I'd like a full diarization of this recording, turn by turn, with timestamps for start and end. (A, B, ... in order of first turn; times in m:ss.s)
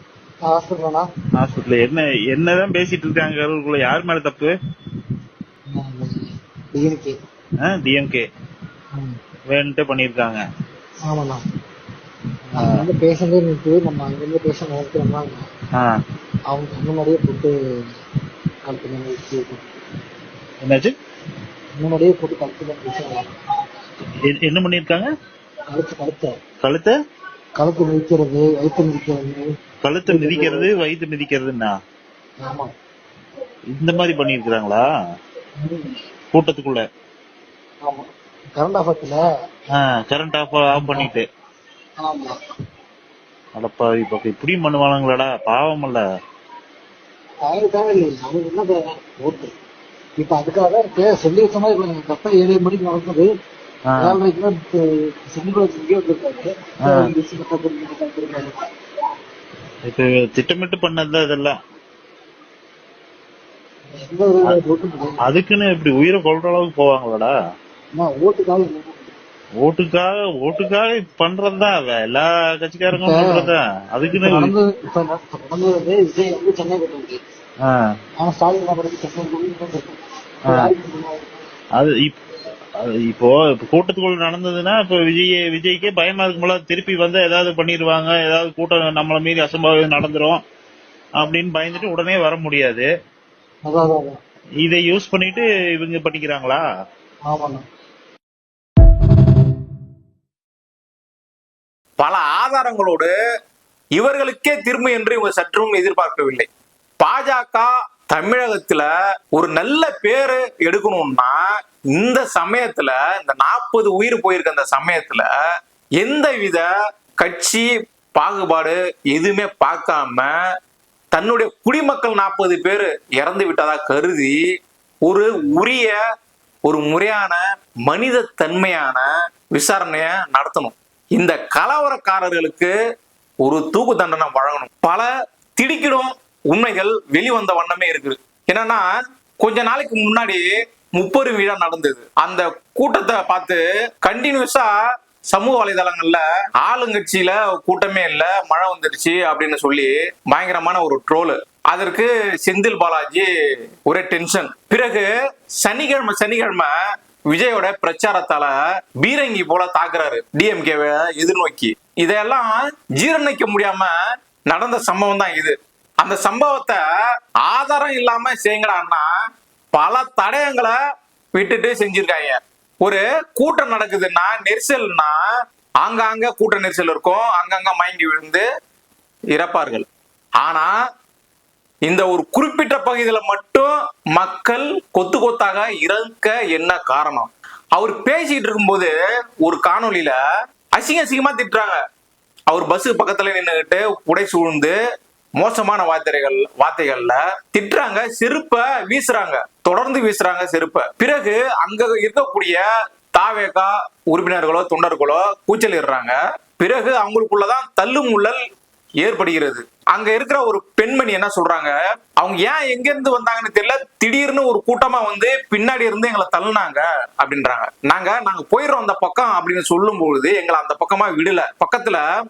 0:00.4-0:01.1 A
0:01.4-0:04.5 B
0:05.7-0:07.2 A
0:07.6-0:08.2 B
0:09.5-0:10.4 B
0:11.0-0:11.4 A
0:12.5-0:15.5 A
0:12.5-0:12.8 B
0:16.5-0:17.6 A
0:18.6-0:19.7 A
0:20.6-0:21.0 B
0:21.8-0:23.3 A
0:24.3-0:25.1 B
0:25.7-0:26.4 A
0:26.6-0:26.9 B
0:27.6-0:29.5 A
0:29.8-0:31.8 B
0:30.1-0:30.7 A
0:32.4-0:32.7 A
0:33.8-0:34.9 B
0:35.6-0:36.0 A
0:36.3-0:36.8 B
0:37.8-0:39.2 A
0:39.8-0:41.3 B
0:40.7-0:41.1 A
0:42.0-0:42.4 A
0:43.6-0:46.0 B
0:47.4-0:49.6 A
0:50.2-0:53.3 A
0:53.9-0:54.2 B
0:54.0-0:58.6 A
0:56.8-0:57.1 B
0:59.8-1:01.6 B
1:03.9-1:05.2 A
1:05.2-1:07.3 B
1:07.9-1:09.2 A
1:09.6-1:14.5 B
1:13.0-1:13.5 A
1:14.1-1:17.2 A
1:18.2-1:21.4 A
1:21.8-1:22.2 B
1:22.8-1:30.4 B
1:31.2-1:32.9 B
1:33.6-1:34.2 A
1:34.6-1:36.6 B
1:37.2-1:37.6 A
1:42.0-1:43.1 C
1:44.0-1:46.5 C
1:47.0-1:51.4 C
1:51.9-1:55.3 C
1:56.0-1:56.7 C
1:57.2-2:00.3 C
2:01.1-2:04.4 C
2:05.0-2:06.0 C
2:06.7-2:12.7 C
2:13.4-2:18.9 C
2:19.4-2:24.7 C
2:25.3-2:33.3 C
2:33.8-2:36.7 C
2:37.3-2:43.9 C
2:44.5-2:46.8 C
2:47.4-2:49.1 C
2:49.7-2:50.8 C
2:51.3-2:55.2 C
2:55.8-2:58.4 C
2:59.3-2:59.8 C
3:00.4-3:00.8 C
3:01.8-3:10.2 C
3:10.8-3:11.8 C
3:12.5-3:14.7 C
3:15.4-3:28.4 C
3:29.0-3:42.0 C